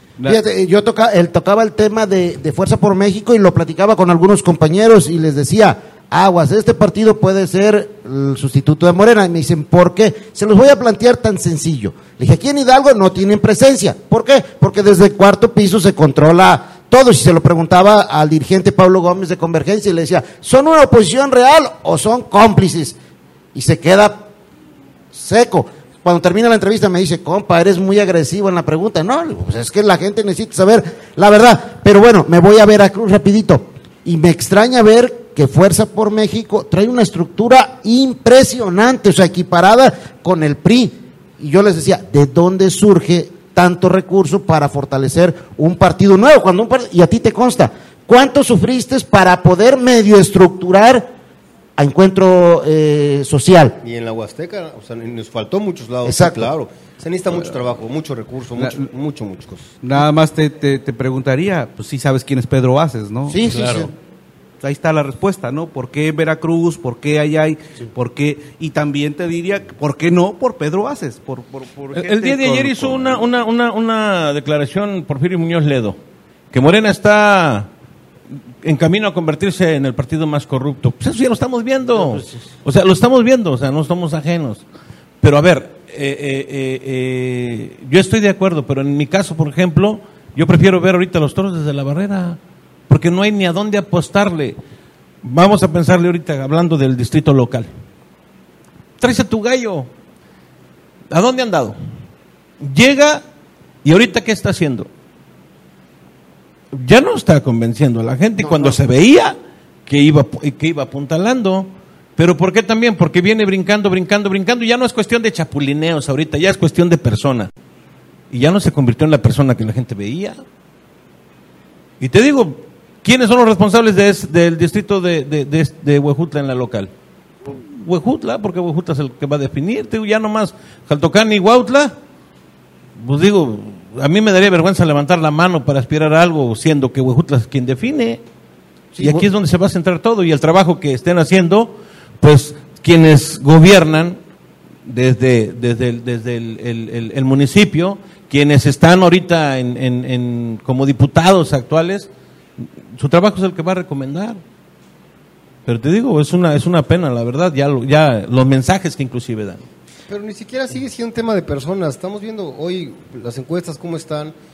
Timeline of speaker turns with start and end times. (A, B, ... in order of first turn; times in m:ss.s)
0:00.2-0:23.0 A
0:23.5-0:24.3 A
0:25.1-0:51.1 A
0:51.8-0:53.8 A
0:53.8-0:59.7 B
0:56.0-0:56.5 A
0:58.6-0:58.8 C
0:59.8-1:03.4 C
1:03.3-1:03.9 A
1:03.5-1:03.9 D
1:04.6-1:13.3 C
1:11.9-1:16.0 D
1:16.5-1:17.7 D
1:18.6-1:24.6 D
1:25.2-1:34.6 D
1:35.2-1:37.7 D
1:39.0-1:39.9 D
1:41.1-1:41.8 D
1:42.6-1:43.2 D
1:43.8-1:44.9 D
1:46.7-1:49.4 D
1:48.4-1:48.8 A
1:49.9-1:57.5 D
1:58.3-2:00.4 D
2:02.0-2:06.9 D
2:07.4-2:11.9 D
2:13.0-2:18.2 D
2:18.9-2:19.3 A
2:19.0-2:24.2 D
2:24.8-2:34.4 D
2:35.6-2:39.6 D
2:40.1-2:44.3 B